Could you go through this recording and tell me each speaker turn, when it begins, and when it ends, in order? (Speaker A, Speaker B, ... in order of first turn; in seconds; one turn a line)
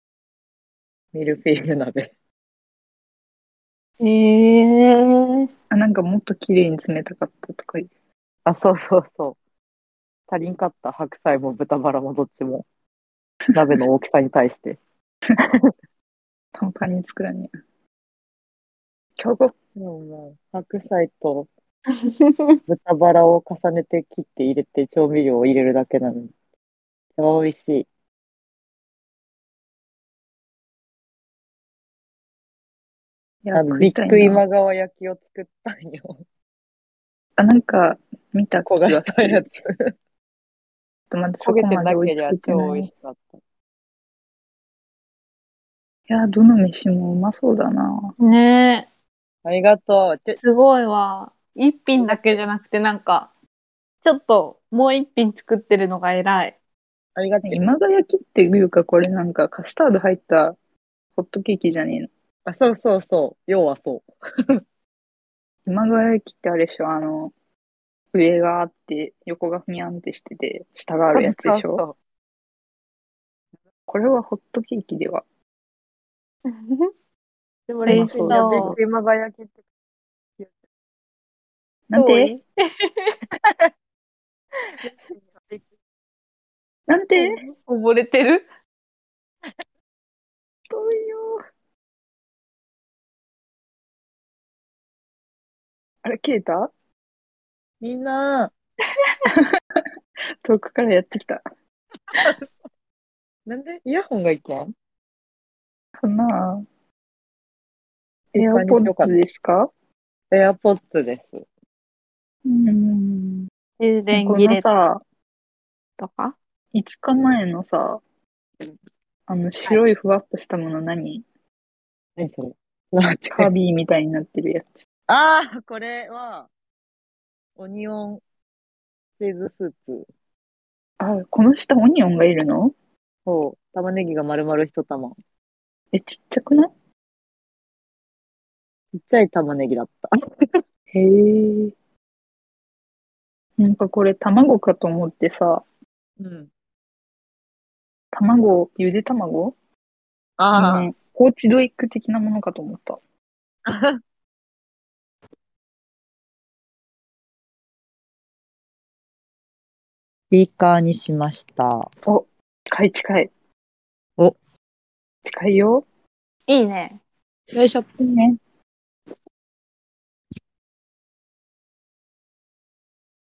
Speaker A: 1.1-2.1
Speaker B: 4.0-5.5
Speaker C: 5.7-7.9
Speaker A: 8.4-9.4
Speaker A: 10.3-12.7
Speaker C: 13.5-13.8
Speaker A: 13.5-14.8
Speaker A: 15.4-15.7
Speaker C: 16.5-17.5
Speaker C: 19.2-19.5
Speaker A: 19.8-21.5
Speaker B: 21.9-22.6
Speaker A: 22.7-26.3
Speaker A: 27.2-27.9
Speaker C: 33.4-34.4
Speaker A: 33.5-36.2
Speaker C: 37.4-39.5
Speaker A: 38.6-39.9
Speaker C: 41.1-42.9
Speaker A: 41.4-43.4
Speaker C: 46.1-48.1
Speaker B: 48.2-48.9
Speaker A: 49.4-50.4
Speaker B: 50.4-53.3
Speaker B: 54.0-56.5
Speaker A: 57.1-57.6
Speaker C: 57.5-60.5
Speaker C: 61.1-62.1
Speaker A: 62.5-64.6
Speaker C: 65.7-67.3
Speaker C: 68.1-71.8
Speaker A: 71.1-72.0
Speaker C: 73.9-75.2
Speaker B: 76.5-76.9
Speaker A: 77.7-79.5
Speaker B: 77.8-78.8
Speaker C: 77.9-78.8
Speaker C: 81.9-82.3
Speaker B: 81.9-83.2
Speaker A: 83.4-83.7
Speaker A: 84.6-85.7
Speaker C: 86.9-87.3
Speaker B: 87.2-88.4
Speaker C: 90.7-91.4
Speaker C: 96.0-96.7
Speaker A: 97.8-98.5
Speaker C: 99.2-99.8
Speaker C: 100.4-101.4
Speaker A: 102.1-102.5
Speaker A: 103.5-104.7
Speaker C: 106.0-106.7
Speaker A: 108.3-109.1
Speaker C: 108.3-109.7
Speaker A: 110.3-111.4
Speaker C: 112.4-113.5
Speaker B: 113.8-114.7
Speaker C: 114.1-115.0
Speaker B: 116.0-116.3
Speaker C: 116.7-118.0
Speaker C: 119.3-121.2
Speaker A: 122.2-123.5
Speaker C: 123.3-124.8
Speaker A: 125.1-126.5
Speaker A: 127.6-128.2
Speaker A: 129.2-130.1
Speaker C: 131.0-132.7
Speaker A: 133.2-135.2
Speaker C: 135.9-136.7
Speaker A: 138.9-140.1
Speaker C: 140.9-141.7
Speaker C: 143.6-145.6
Speaker A: 146.2-146.5
Speaker C: 148.1-149.6
Speaker A: 150.4-150.9
Speaker C: 150.5-153.0
Speaker A: 153.7-154.0
Speaker A: 160.3-161.9
Speaker C: 162.1-163.3
Speaker C: 165.2-165.8
Speaker B: 166.5-167.0
Speaker A: 167.5-167.8
Speaker C: 168.0-168.4